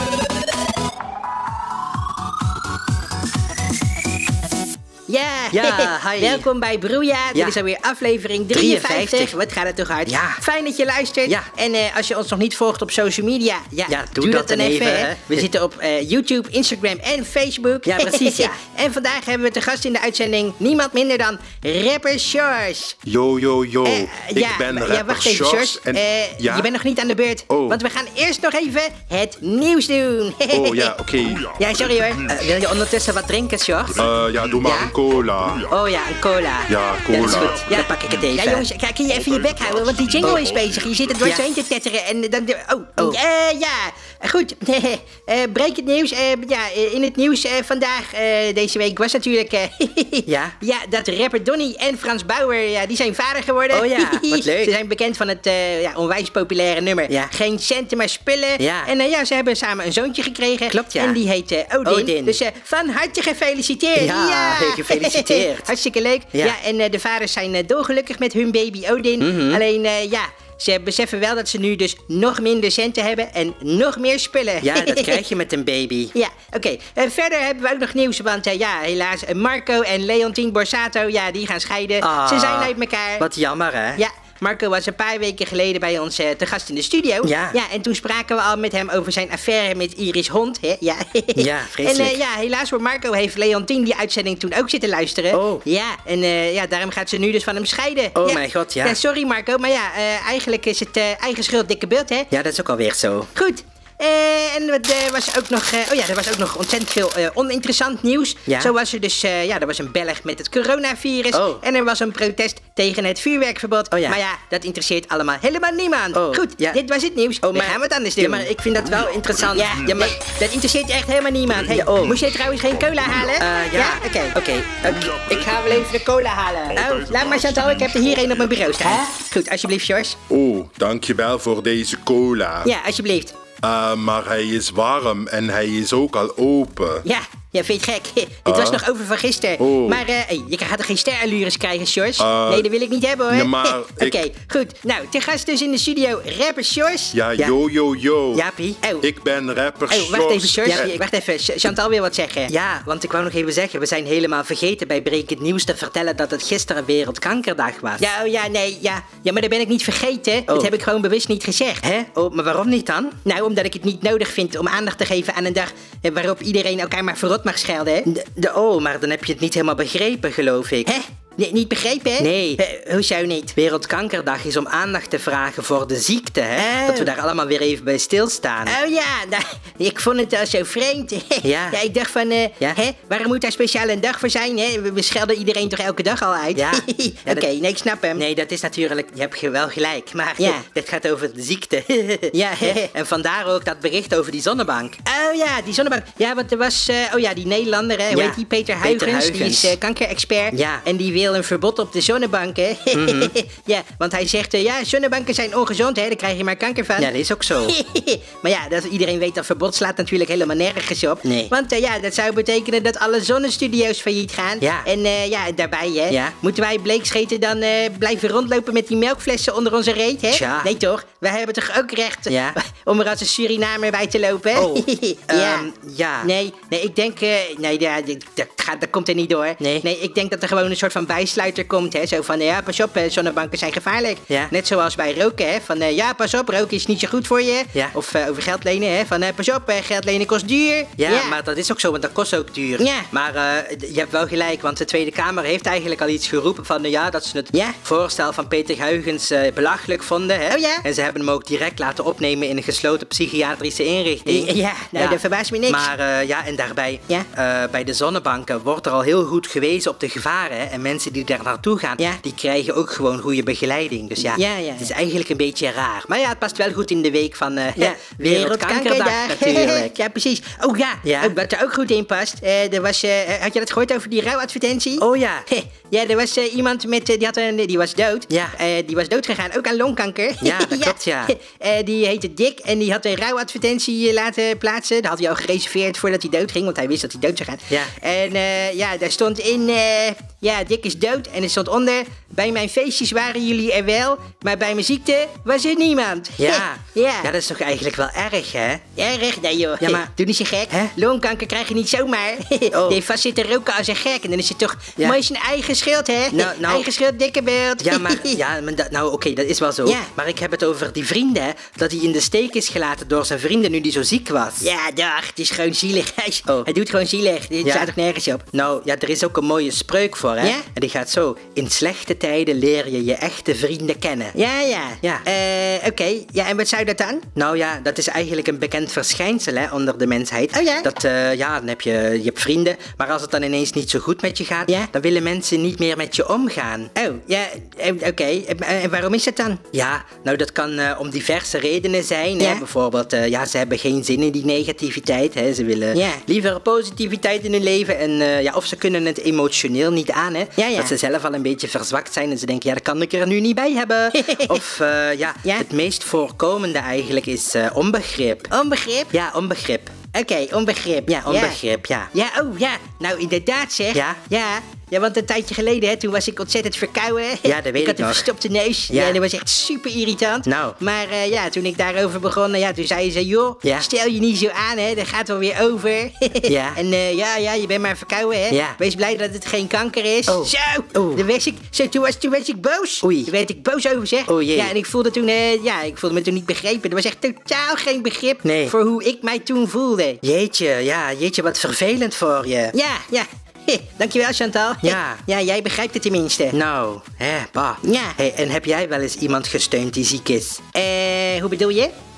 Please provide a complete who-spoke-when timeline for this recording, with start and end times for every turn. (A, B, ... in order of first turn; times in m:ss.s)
0:05.1-0:23.0 A
0:05.5-0:06.5 B
0:08.5-0:09.4 B
0:10.1-0:10.4 B
0:13.9-0:15.5 B
0:17.9-0:18.6 B
0:23.0-0:26.7 C
0:23.8-0:31.0 A
0:27.5-0:27.8 C
0:30.5-0:31.6 C
0:31.6-0:32.4 A
0:32.2-0:34.1 B
0:34.0-0:35.7 C
0:34.6-0:34.9 B
0:35.7-0:38.7 B
0:36.7-0:37.7 C
0:37.1-1:15.2 A
0:40.2-0:40.6 B
0:41.2-0:41.5 B
0:50.3-0:50.6 B
0:53.7-0:54.7 B
0:57.1-0:57.3 B
0:58.6-0:58.9 B
1:00.7-1:02.4 B
1:04.0-1:05.7 B
1:09.2-1:09.6 B
1:14.6-1:16.1 B
1:16.1-1:23.3 A
1:22.0-1:24.0 B
1:24.0-1:42.3 A
1:27.2-1:27.6 B
1:31.4-1:32.2 B
1:35.3-1:35.6 B
1:38.2-1:39.0 B
1:42.3-1:43.3 B
1:43.4-1:58.5 A
1:48.5-1:48.7 B
1:51.3-1:51.6 B
1:53.9-1:54.2 B
1:56.1-1:56.8 B
1:57.4-2:00.4 B
1:59.5-2:04.4 A
2:01.5-2:02.4 B
2:03.4-2:09.1 B
2:05.0-2:10.2 A
2:10.3-2:12.7 C
2:12.6-2:13.3 A
2:13.6-2:17.1 C
2:17.0-2:27.2 A
2:18.5-2:18.8 C
2:19.6-2:20.0 C
2:21.3-2:22.2 B
2:22.2-2:22.7 C
2:23.3-2:24.2 C
2:27.1-2:28.5 C
2:28.3-2:28.8 B
2:29.0-2:30.9 C
2:29.9-2:32.5 A
2:30.1-2:31.7 B
2:32.5-2:38.1 B
2:38.0-2:41.9 A
2:40.5-2:40.7 B
2:41.8-2:43.2 B
2:43.2-2:48.1 A
2:48.1-2:50.9 B
2:50.9-2:53.6 A
2:52.2-2:52.6 B
2:53.6-2:58.8 B
2:56.6-2:57.1 A
2:58.7-3:08.2 A
3:01.4-3:01.8 B
3:06.6-3:07.5 B
3:08.2-3:15.2 B
3:12.3-3:12.9 A
3:15.1-3:45.7 A
3:18.1-3:19.8 B
3:20.5-3:20.8 B
3:22.9-3:23.3 B
3:27.0-3:27.8 B
3:31.2-3:31.5 B
3:34.6-3:34.9 B
3:36.1-3:36.4 B
3:40.3-3:40.7 B
3:42.3-3:42.6 B
3:44.6-3:46.3 B
3:46.2-4:01.4 A
3:49.6-3:49.9 B
4:01.0-4:29.9 B
4:02.8-4:03.1 A
4:10.5-4:10.8 A
4:14.3-4:15.9 A
4:24.2-4:24.9 A
4:27.8-4:57.3 A
4:31.0-4:31.4 B
4:35.0-4:35.5 B
4:38.3-4:38.6 B
4:40.4-4:41.3 B
4:56.4-4:58.8 B
4:59.0-5:08.4 A
4:59.8-5:00.1 B
5:02.7-5:03.0 B
5:06.3-5:06.9 B
5:07.8-5:14.6 B
5:14.6-5:18.5 A
5:17.6-5:24.4 B
5:24.3-5:27.3 A
5:27.3-5:36.9 B
5:30.5-5:30.9 A
5:37.0-5:39.6 A
5:39.7-5:58.5 B
5:42.4-5:42.6 A
5:45.9-5:46.2 A
5:50.6-5:50.9 A
5:54.2-5:54.6 A
5:58.5-5:59.1 A
5:59.1-6:00.0 B
6:00.1-6:01.6 A
6:00.7-6:02.1 B
6:02.1-6:30.2 A
6:03.9-6:04.3 B
6:07.4-6:08.3 B
6:08.9-6:09.2 B
6:10.5-6:10.8 B
6:16.4-6:16.8 B
6:18.5-6:18.8 B
6:20.3-6:21.2 B
6:23.0-6:23.3 B
6:24.3-6:24.7 B
6:28.4-6:28.7 B
6:30.2-6:32.7 B
6:32.7-6:36.6 A
6:34.8-6:35.2 B
6:36.5-6:40.6 B
6:37.8-6:38.2 A
6:40.7-6:41.9 A